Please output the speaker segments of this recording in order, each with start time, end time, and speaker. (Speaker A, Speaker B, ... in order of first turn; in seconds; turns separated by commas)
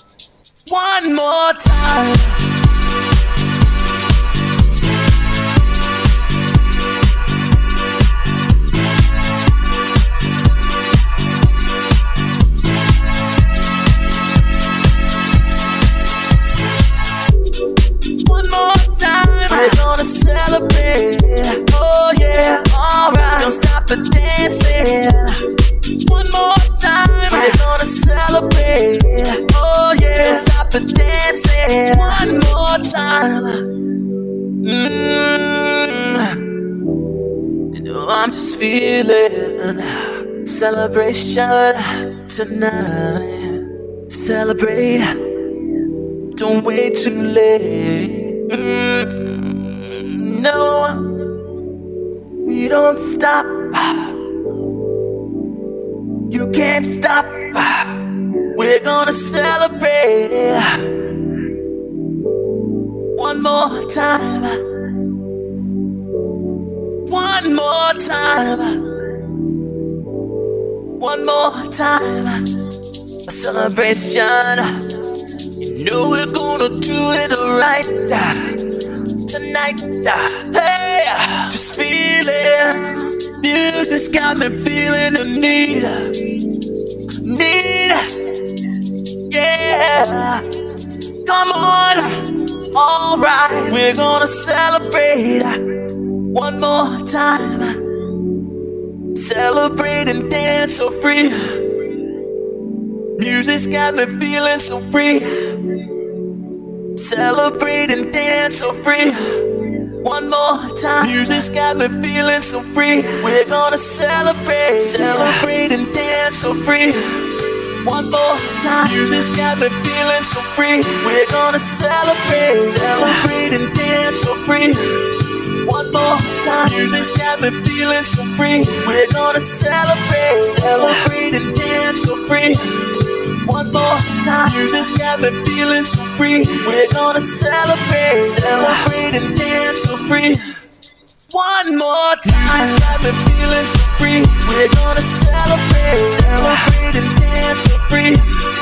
Speaker A: 0.7-2.4, Speaker A: 18.2-25.3, Speaker A: 26.0-33.6, Speaker A: 34.6-36.4, Speaker A: 37.7-45.1, Speaker A: 46.3-51.1, Speaker A: 52.4-54.1, Speaker A: 56.3-57.9, Speaker A: 58.5-60.8, Speaker A: 63.1-64.6, Speaker A: 67.0-68.8, Speaker A: 71.0-72.4, Speaker A: 73.3-74.7, Speaker A: 75.6-78.5, Speaker A: 79.2-86.1, Speaker A: 87.2-88.0, Speaker A: 89.3-90.4, Speaker A: 91.2-92.2, Speaker A: 92.7-95.5, Speaker A: 96.3-97.8, Speaker A: 99.1-101.6, Speaker A: 103.2-105.3, Speaker A: 107.0-109.2, Speaker A: 110.0-117.2, Speaker A: 117.8-124.9, Speaker A: 125.6-132.6, Speaker A: 133.4-140.4, Speaker A: 141.3-148.2